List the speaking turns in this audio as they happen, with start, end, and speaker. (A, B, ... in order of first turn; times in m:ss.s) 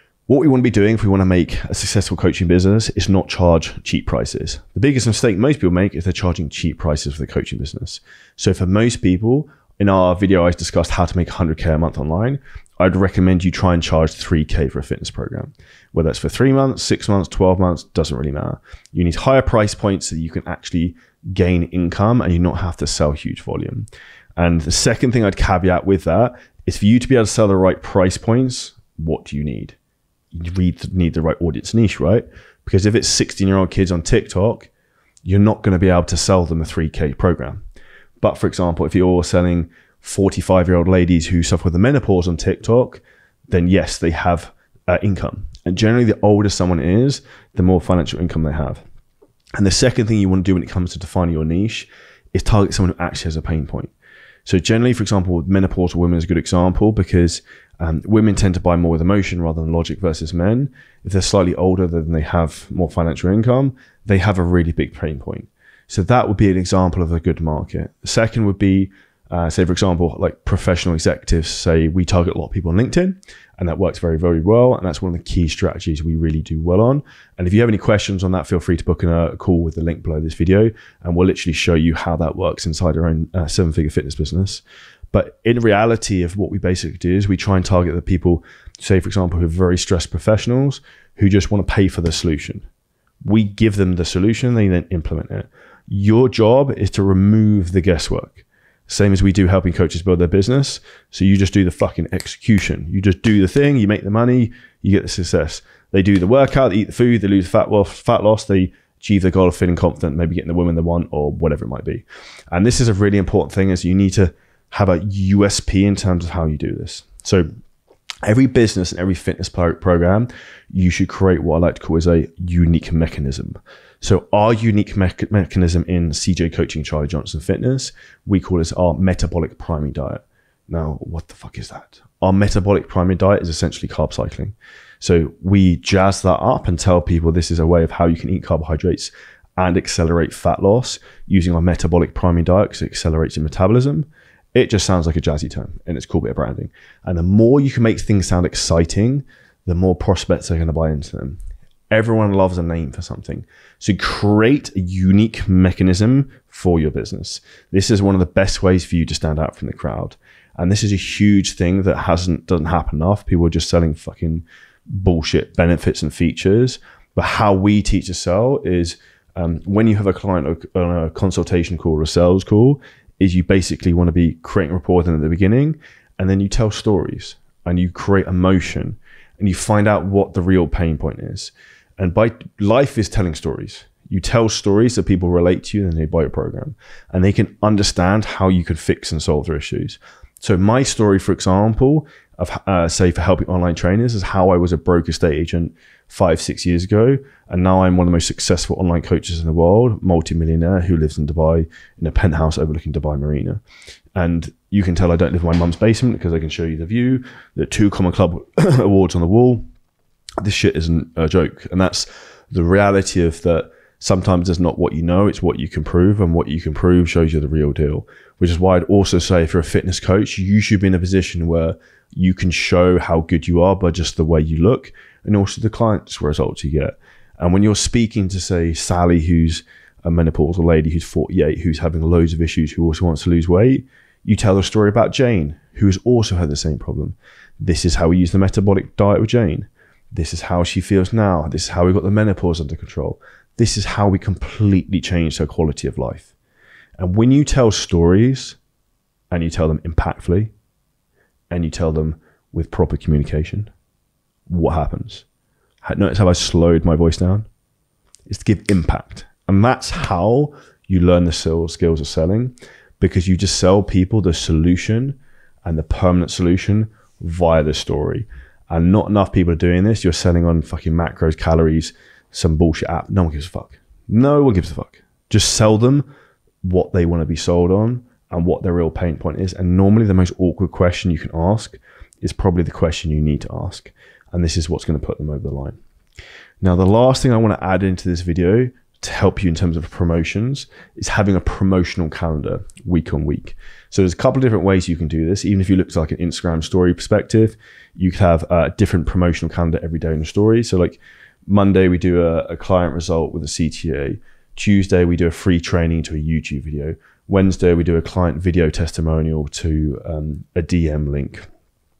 0:00.3-0:29.8 A
0:30.3-0:34.7 A
0:35.2-0:37.6 A
0:38.2-0:48.8 A
0:49.6-0:53.9 A
0:54.4-1:32.7 A
1:33.2-1:57.4 A
1:58.2-2:31.4 A
2:31.9-2:44.4 A
2:45.0-3:23.6 A
3:24.2-3:29.6 A
3:30.4-4:06.3 A
4:07.0-4:08.6 A
4:09.3-4:10.5 A
4:11.5-4:13.7 A
4:14.5-4:15.2 A
4:15.8-4:17.4 A
4:18.3-4:36.1 A
4:36.6-4:45.8 A
4:46.6-5:11.5 A